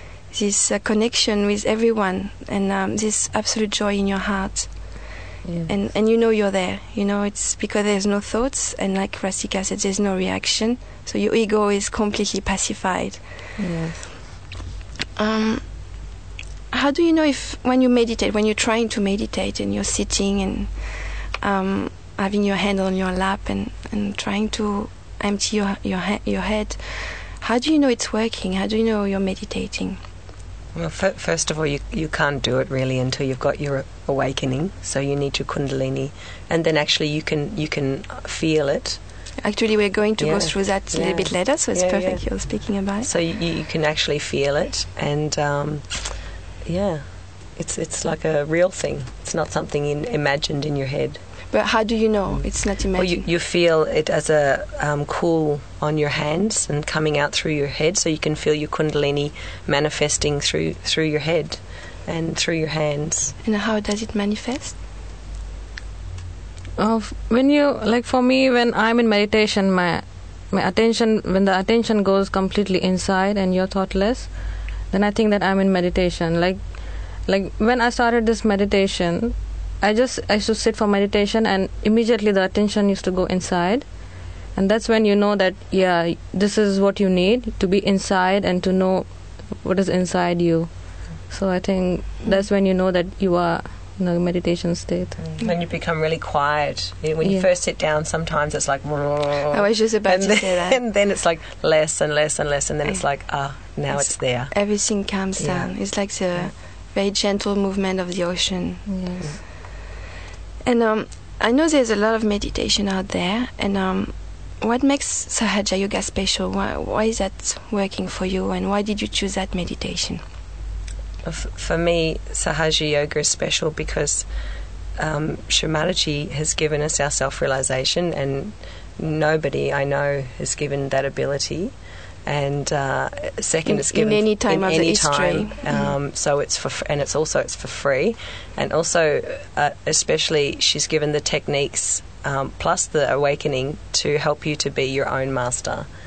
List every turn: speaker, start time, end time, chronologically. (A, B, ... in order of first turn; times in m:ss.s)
0:00.3-0:05.1 A
0:05.4-0:05.7 B
0:05.6-0:13.3 A
0:13.6-0:14.2 B
0:15.2-0:16.0 A
0:16.7-0:30.0 A
0:30.7-0:39.0 C
0:39.4-0:43.1 A
0:40.2-0:42.5 C
0:43.0-0:46.1 C
0:46.6-0:51.2 C
0:51.5-0:53.3 A
0:52.3-1:03.3 C
1:03.4-1:04.8 A
1:06.8-1:35.2 B
1:35.2-1:44.6 C
1:37.2-1:37.5 B
1:39.5-1:40.8 A
1:43.9-1:48.9 A
1:45.4-1:45.7 C
1:48.9-1:49.4 B
1:50.6-2:00.2 A
2:01.2-2:04.2 C
2:05.0-2:11.7 C
2:12.2-2:25.9 C
2:13.6-2:15.9 A